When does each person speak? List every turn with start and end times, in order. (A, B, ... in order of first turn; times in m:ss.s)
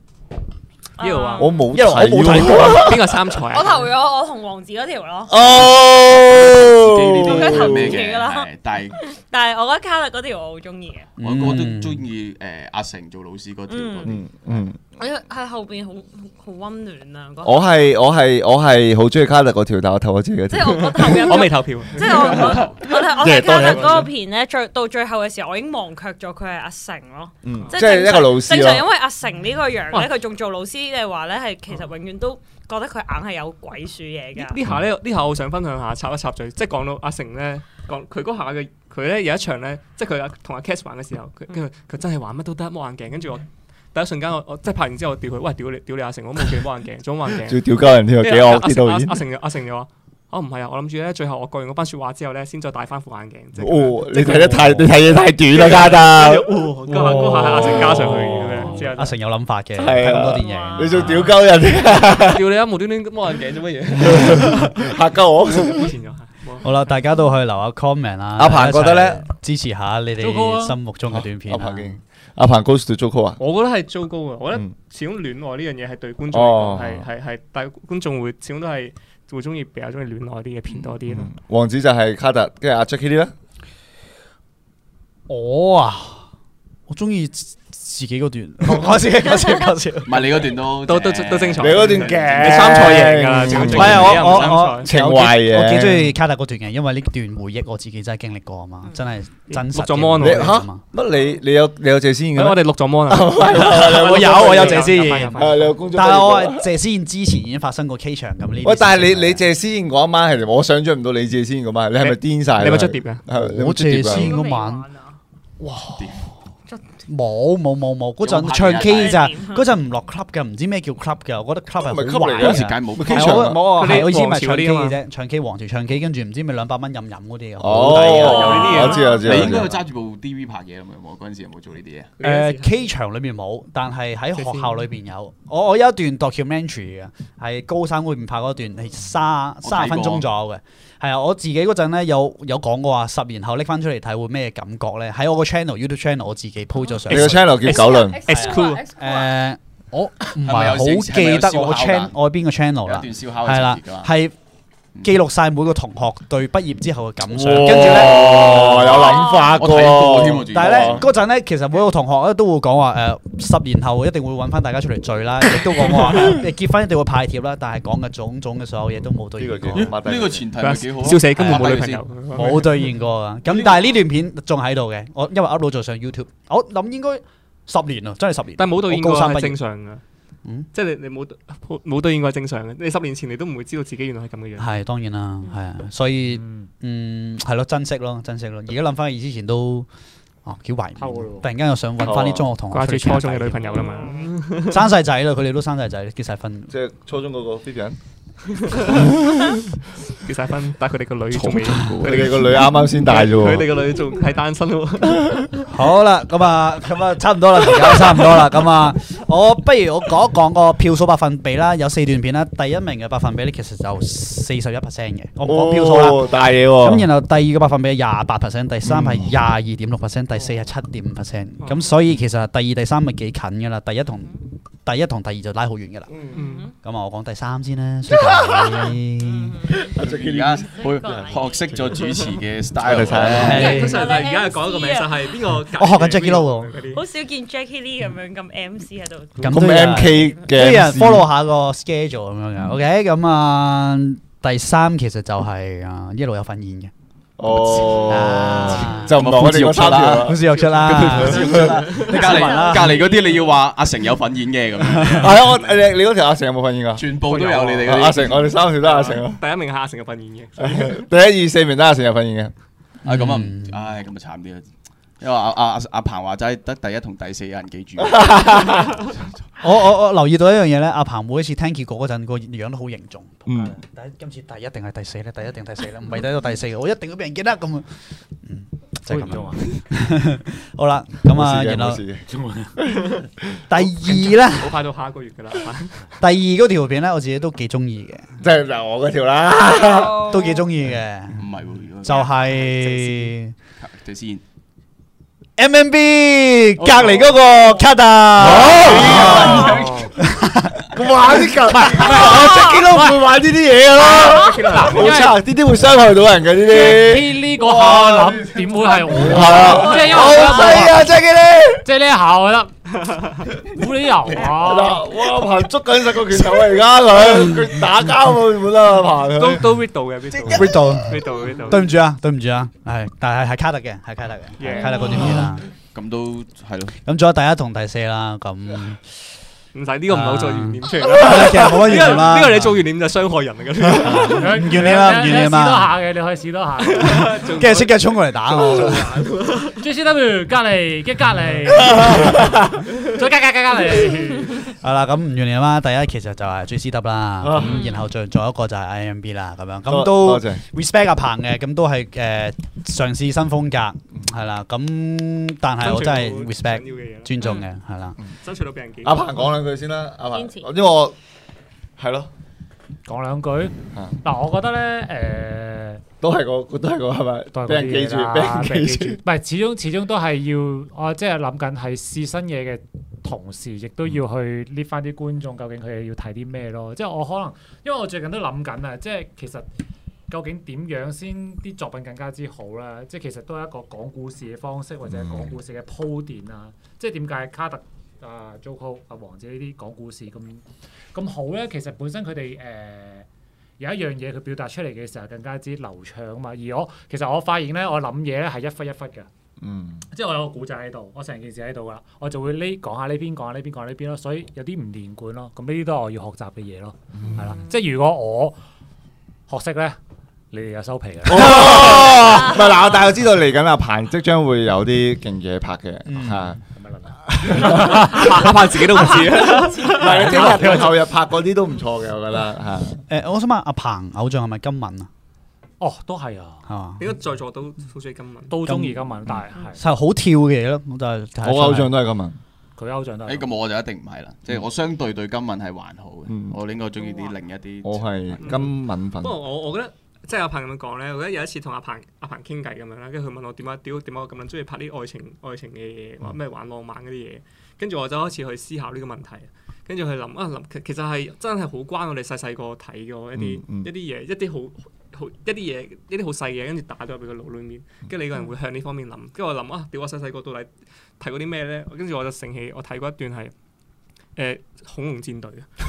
0:01.0-0:01.6 A
0:01.0-0:01.6 B
0:01.4-0:03.1 C
0:01.7-0:03.0 D
0:02.4-0:03.9 B
0:03.5-0:05.4 A
0:05.3-0:07.9 C
0:05.5-0:09.0 E
0:07.2-0:11.1 A
0:11.2-0:12.0 D
0:11.2-0:14.4 E
0:13.7-0:14.1 A
0:14.0-0:14.8 C
0:15.0-0:17.6 A
0:17.4-0:21.2 C
0:20.5-0:34.6 A
0:20.9-0:24.1 B
0:22.5-0:22.8 E
0:23.2-0:24.1 C
0:27.4-0:28.8 C
0:34.4-0:47.6 B
0:47.4-0:49.2 C
0:48.2-0:54.8 B
0:53.6-0:58.8 C
0:54.4-0:54.7 D
0:55.5-0:59.2 B
0:56.9-1:01.3 D
0:59.8-1:02.4 C
1:00.3-1:01.2 A
1:02.1-1:05.0 B
1:04.0-1:05.9 C
1:05.5-1:06.7 B
1:06.6-1:12.0 D
1:08.4-1:09.2 C
1:10.2-1:10.8 F
1:11.1-1:13.4 C
1:13.4-1:21.3 B
1:16.3-1:17.1 C
1:21.1-1:23.3 C
1:25.3-1:26.2 D
1:26.9-1:30.3 D
1:30.0-1:32.7 E
1:30.8-1:34.9 B
1:31.6-1:36.1 C
1:33.4-1:40.8 D
1:39.5-1:40.5 B
1:40.2-1:46.6 C
1:42.4-1:45.8 B
1:43.5-1:49.4 D
1:45.1-1:45.4 F
1:48.6-1:54.3 C
1:52.0-1:53.2 B
1:53.3-1:54.8 D
1:54.1-1:55.2 A
1:56.0-1:56.3 E
1:56.7-1:56.9 A
1:57.1-2:09.0 D
1:58.2-1:59.3 E
1:58.8-1:59.6 A
2:01.8-2:03.7 C
2:02.4-2:03.6 E
2:03.7-2:05.0 B
2:07.6-2:09.8 C
2:08.0-2:09.1 B
2:08.2-2:09.4 A
2:09.0-2:12.1 E
2:12.2-2:12.8 B
2:12.2-2:34.3 D
2:14.4-2:14.8 B
2:19.6-2:20.2 E
2:27.1-2:28.2 C
2:27.1-2:28.8 B
2:27.7-2:29.3 A
2:30.4-2:32.1 E
2:32.8-2:34.1 E
2:35.0-2:39.2 D
2:37.3-2:41.0 C
2:37.9-2:41.0 E
2:38.9-2:39.6 A
2:40.5-2:49.9 D
2:49.4-2:50.5 C
2:49.7-2:52.5 E
2:50.6-2:52.7 B
2:51.3-2:51.8 D
2:52.3-2:59.6 D
2:58.6-3:00.0 B
3:00.7-3:04.7 B
3:04.6-3:09.9 D
3:06.3-3:06.7 F
3:10.4-3:13.8 D
3:11.0-3:11.5 F
3:12.0-3:12.5 C
3:12.7-3:14.8 B
3:13.7-3:14.3 A
3:14.6-3:16.7 D
3:16.7-3:18.0 C
3:18.6-3:19.3 B
3:20.2-3:25.6 B
3:21.3-3:22.6 E
3:22.0-3:23.6 C
3:25.7-3:46.1 D
3:35.4-3:37.1 C
3:38.9-3:39.3 C
3:41.6-3:41.9 B
3:46.1-3:46.4 C
3:46.3-3:46.6 B
3:46.3-3:46.7 A
3:46.8-3:49.6 D
3:49.2-3:50.0 A
3:49.7-3:51.9 C
3:50.0-3:53.8 E
3:50.7-3:52.3 A
3:52.8-3:53.8 C
3:53.3-3:54.1 D
3:53.3-3:57.0 B
3:53.4-3:55.3 A
3:55.7-3:56.7 D
3:56.9-4:00.0 A
3:59.4-4:06.9 D
3:59.4-4:01.3 C
4:07.4-4:10.4 C
4:07.8-4:08.2 A
4:08.0-4:13.1 D
4:08.9-4:15.4 E
4:11.0-4:11.7 C
4:11.9-4:13.5 A
4:14.9-4:15.2 D
4:15.2-4:17.1 C
4:16.9-4:18.5 E
4:17.4-4:17.8 F
4:17.8-4:19.4 C
4:18.8-4:21.0 B
4:20.6-4:22.5 C
4:23.0-4:23.8 D
4:23.0-4:24.7 E
4:25.2-4:28.9 E
4:28.0-4:29.0 C
4:29.6-4:42.0 D
4:33.4-4:33.8 C
4:39.1-4:39.8 F
4:41.2-4:42.2 C
4:42.4-4:42.7 F
4:42.8-4:43.6 C
4:43.7-4:44.8 D
4:44.0-4:46.1 B
4:46.2-4:48.4 D
4:48.4-4:50.2 C
4:49.7-4:50.7 A
4:50.2-4:51.4 D
4:51.3-4:52.3 E
4:52.0-4:53.5 D
4:52.6-4:53.2 B
4:53.8-4:54.4 E
4:55.6-5:00.9 D
4:56.8-4:57.3 E
4:58.4-4:59.9 C
4:59.3-5:00.2 F
4:59.5-4:59.8 A
5:00.8-5:08.5 C
5:01.7-5:02.1 D
5:02.0-5:02.3 F
5:02.1-5:02.8 A
5:04.2-5:05.2 B
5:04.2-5:05.3 F
5:06.6-5:11.0 F
5:09.2-5:11.9 C
5:09.6-5:10.6 A
5:11.8-5:12.7 F
5:13.0-5:13.4 B
5:13.7-5:15.0 F
5:14.4-5:19.7 C
5:19.3-5:21.9 B
5:20.3-5:20.7 E
5:20.5-5:25.6 D
5:24.6-5:25.5 B
5:25.9-5:27.0 E
5:27.0-5:29.1 D
5:29.7-5:34.8 B
5:30.1-5:32.8 D
5:33.9-5:36.0 D
5:34.3-5:37.5 F
5:36.8-5:39.8 B
5:37.0-5:39.2 D
5:39.8-5:44.7 F
5:44.7-5:58.2 D
5:47.4-5:47.8 C
5:47.6-5:48.0 A
5:49.9-5:50.6 C
5:55.8-5:57.3 B
5:57.4-5:57.6 A
5:58.4-5:59.3 B
5:59.0-6:01.2 C
6:00.3-6:00.7 A
6:02.0-6:02.3 C
6:03.0-6:06.0 F
6:06.2-6:09.2 C
6:07.5-6:19.7 F
6:08.6-6:09.2 B
6:20.3-6:33.3 F
6:25.1-6:25.5 C
6:33.8-6:39.3 F
6:39.6-6:40.0 C
6:40.1-6:48.6 F
6:47.1-6:47.5 C
6:49.5-6:50.0 F
6:50.5-6:52.1 F
6:51.2-6:56.6 C
6:52.1-6:52.8 A
6:56.1-6:56.5 D
6:56.7-6:58.5 F
6:57.3-6:58.5 C
6:57.5-7:00.9 B
6:58.9-7:00.1 A
6:59.4-7:00.9 F
6:59.8-7:03.0 C
7:03.1-7:05.1 D
7:05.8-7:06.6 F
7:06.6-7:07.0 D
7:07.0-7:08.6 B
7:08.5-7:09.8 F
7:08.6-7:11.9 D
7:11.4-7:12.4 C
7:12.8-7:13.5 F
7:13.2-7:18.7 E
7:16.3-7:16.6 C
7:17.8-7:19.4 C
7:18.4-7:43.5 B
7:33.3-7:33.9 C
7:44.4-7:45.7 B